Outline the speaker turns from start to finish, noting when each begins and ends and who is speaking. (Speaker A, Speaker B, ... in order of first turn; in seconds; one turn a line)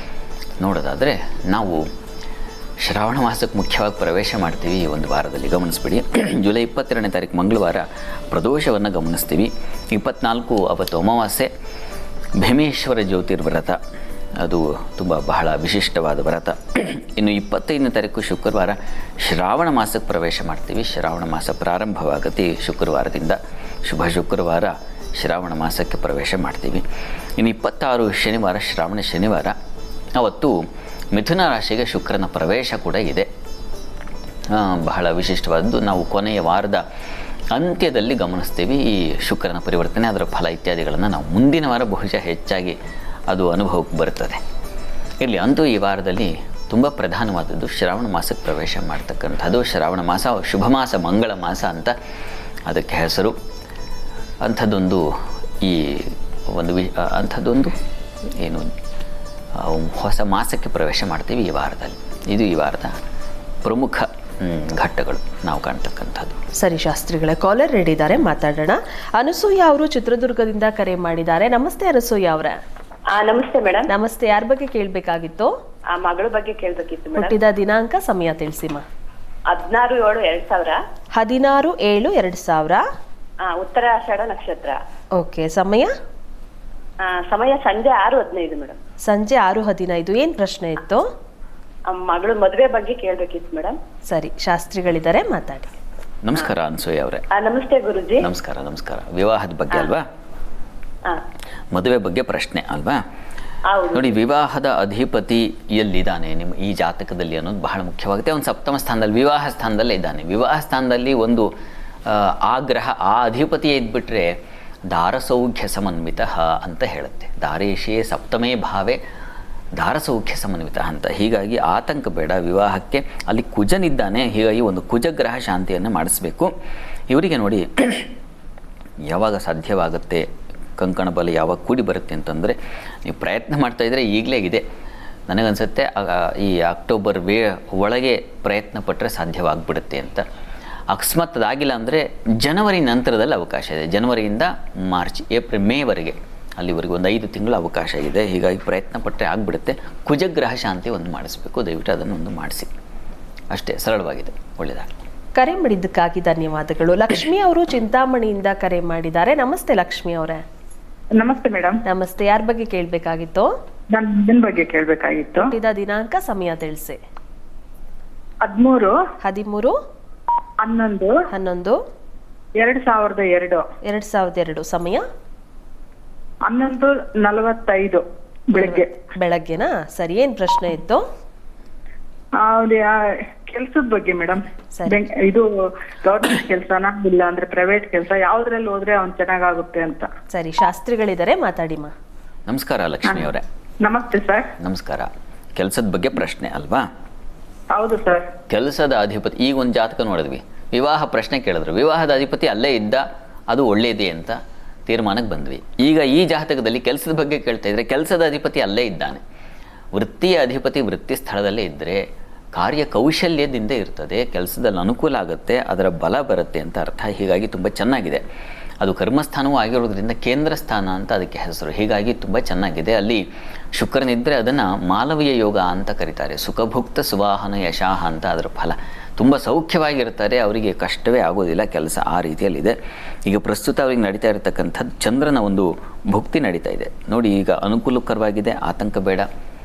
Speaker A: 0.6-1.8
Speaker A: 2.8-11.5
Speaker A: 12.4-13.8
Speaker A: 14.4-26.8
Speaker A: 27.4-29.5
Speaker A: 30.1-30.6
Speaker A: 31.1-33.3
Speaker A: 34.5-36.8
Speaker A: 37.5-42.8
Speaker A: 43.3-44.4
Speaker A: 45.2-51.9
Speaker A: 52.7-53.3
Speaker A: 54.4-55.0
Speaker A: 55.6-57.7
Speaker A: 58.4-58.7
Speaker A: 59.6-62.9
Speaker A: 63.6-66.4
Speaker B: 66.6-72.6
Speaker C: 73.1-73.9
Speaker B: 73.9-75.5
Speaker C: 75.9-77.3
Speaker B: 77.2-78.8
Speaker C: 79.5-80.8
Speaker B: 81.2-82.8
Speaker C: 83.4-84.8
Speaker B: 85.2-85.9
Speaker C: 87.0-88.8
Speaker B: 89.0-91.0
Speaker C: 91.9-93.8
Speaker B: 94.1-95.7
Speaker A: 96.2-97.2
Speaker C: 97.3-98.2
Speaker A: 98.2-100.0
Speaker A: 101.7-103.0
Speaker C: 103.7-104.2
Speaker A: 103.9-111.5
Speaker A: 112.0-114.3
Speaker A: 114.9-119.0
Speaker A: 119.8-126.5
Speaker A: 127.1-128.1
Speaker A: 129.1-130.2
Speaker A: 130.8-134.6
Speaker A: 135.3-140.2
Speaker A: 140.9-152.7
Speaker A: 153.5-154.9
Speaker B: 155.3-160.4
Speaker D: 161.2-161.8
Speaker B: 161.9-163.5
Speaker D: 163.9-165.5
Speaker B: 165.4-167.0
Speaker D: 168.4-168.9
Speaker B: 169.2-169.7
Speaker D: 170.6-171.2
Speaker B: 171.3-171.8
Speaker D: 172.6-173.6
Speaker B: 173.8-175.0
Speaker D: 176.4-178.0
Speaker D: 178.5-178.9
Speaker B: 178.5-181.0
Speaker D: 182.4-185.5
Speaker D: 186.0-190.1
Speaker B: 190.3-191.9
Speaker A: 192.5-193.4
Speaker D: 193.8-194.5
Speaker A: 194.6-196.8
Speaker D: 197.7-198.3
Speaker A: 198.5-209.2
Speaker A: 209.9-212.0
Speaker A: 212.5-218.2
Speaker A: 218.8-223.2
Speaker A: 223.8-232.7
Speaker A: 233.3-239.3